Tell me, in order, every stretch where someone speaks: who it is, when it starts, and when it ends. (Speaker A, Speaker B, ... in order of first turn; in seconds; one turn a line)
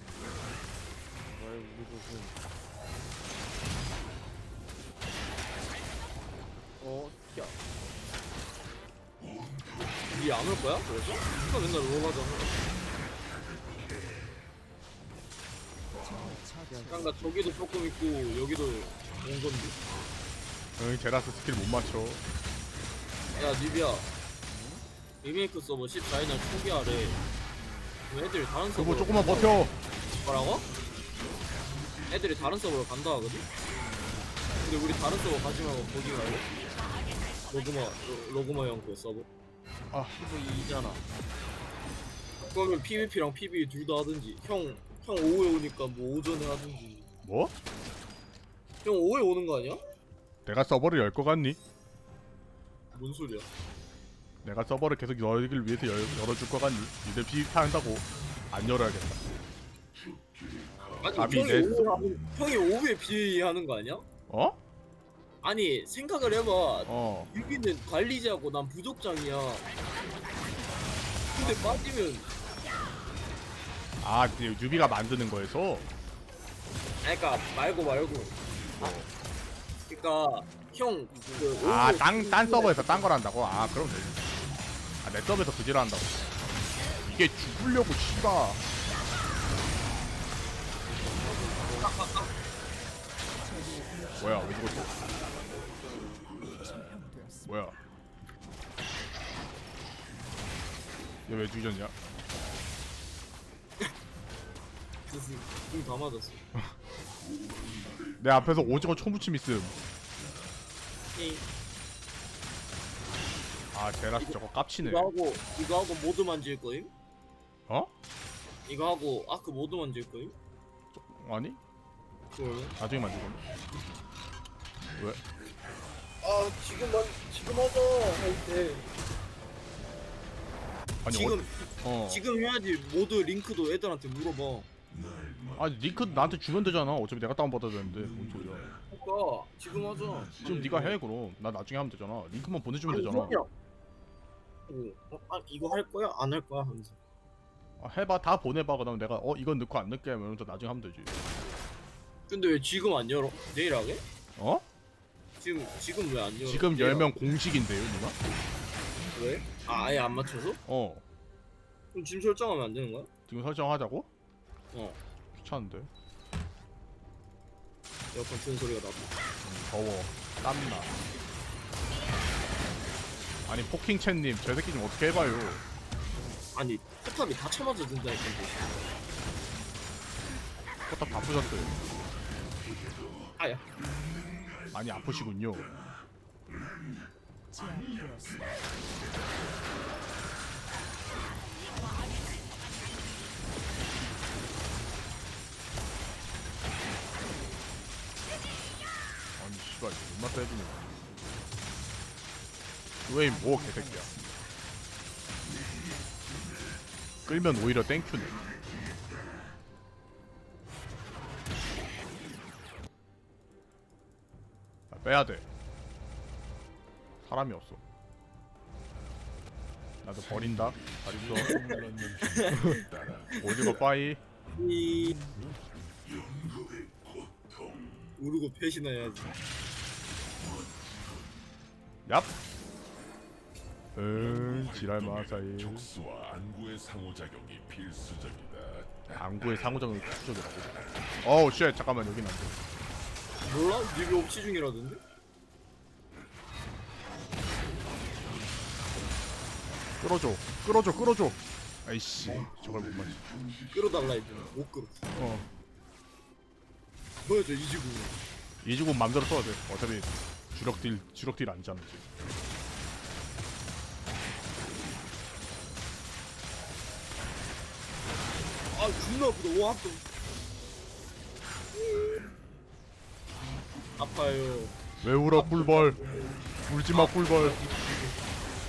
Speaker A: 1.2-2.4
Speaker A: 6.8-7.6
Speaker B: 10.1-12.6
Speaker C: 16.0-17.3
Speaker A: 16.7-17.6
Speaker B: 16.9-19.8
Speaker D: 20.8-22.2
Speaker B: 23.4-24.1
Speaker A: 24.5-24.8
Speaker B: 25.2-27.2
Speaker A: 27.6-28.1
Speaker B: 28.1-29.6
Speaker D: 28.7-29.7
Speaker B: 30.2-30.6
Speaker B: 32.1-33.5
Speaker A: 33.8-34.3
Speaker B: 34.6-36.5
Speaker B: 37.5-39.3
Speaker D: 39.9-40.2
Speaker A: 40.2-41.0
Speaker B: 40.4-40.9
Speaker B: 42.4-47.1
Speaker D: 47.2-47.5
Speaker B: 48.8-49.8
Speaker D: 50.5-51.6
Speaker B: 52.9-53.5
Speaker D: 54.4-59.2
Speaker B: 61.0-64.0
Speaker D: 61.1-61.9
Speaker D: 64.3-64.6
Speaker B: 65.4-69.7
Speaker D: 66.9-67.3
Speaker B: 71.3-72.3
Speaker D: 71.4-71.8
Speaker D: 74.0-75.9
Speaker B: 77.0-78.9
Speaker D: 78.8-79.1
Speaker B: 79.9-83.1
Speaker A: 81.1-81.8
Speaker D: 81.6-84.4
Speaker D: 85.0-86.2
Speaker D: 87.0-88.6
Speaker A: 90.8-92.0
Speaker B: 91.8-92.3
Speaker C: 93.4-95.4
Speaker D: 94.2-94.9
Speaker C: 96.4-97.8
Speaker D: 97.5-97.8
Speaker D: 101.3-101.9
Speaker B: 105.1-106.4
Speaker D: 108.2-109.8
Speaker B: 111.1-111.4
Speaker D: 113.7-115.1
Speaker B: 114.2-116.9
Speaker B: 118.7-120.3
Speaker D: 120.9-121.6
Speaker B: 122.3-122.8
Speaker D: 122.8-123.4
Speaker D: 125.0-125.2
Speaker B: 126.2-128.9
Speaker D: 131.0-132.2
Speaker B: 131.1-134.7
Speaker D: 135.5-138.7
Speaker B: 138.9-141.0
Speaker D: 140.4-143.4
Speaker B: 142.9-143.5
Speaker B: 144.7-147.0
Speaker D: 147.8-151.1
Speaker B: 152.3-154.0
Speaker D: 154.4-154.6
Speaker B: 155.4-157.2
Speaker D: 156.4-158.2
Speaker B: 159.1-160.6
Speaker D: 160.7-161.0
Speaker B: 161.9-163.1
Speaker D: 163.3-164.1
Speaker B: 164.7-165.0
Speaker D: 165.3-165.9
Speaker B: 168.1-169.1
Speaker D: 169.4-170.9
Speaker D: 173.5-175.6
Speaker B: 176.4-178.9
Speaker D: 180.9-181.8
Speaker B: 183.4-183.6
Speaker D: 184.7-185.7
Speaker C: 187.5-188.8
Speaker D: 199.4-200.9
Speaker D: 203.1-204.1
Speaker C: 203.1-204.5
Speaker D: 207.3-208.4
Speaker D: 214.9-215.4
Speaker D: 217.2-217.8
Speaker D: 220.0-221.7
Speaker B: 221.3-223.7
Speaker D: 222.5-222.8
Speaker D: 223.4-224.2
Speaker B: 224.6-225.2
Speaker B: 228.2-229.3
Speaker D: 232.1-232.3
Speaker D: 233.9-235.9
Speaker D: 239.1-242.6
Speaker B: 243.4-245.0
Speaker D: 250.0-253.2
Speaker B: 253.7-255.0
Speaker D: 255.2-255.5
Speaker B: 257.2-258.2
Speaker D: 258.6-262.0
Speaker B: 268.8-270.0
Speaker B: 271.8-272.2
Speaker B: 274.0-274.7
Speaker D: 275.0-276.0
Speaker B: 275.3-276.3
Speaker D: 276.7-277.6
Speaker B: 276.9-278.2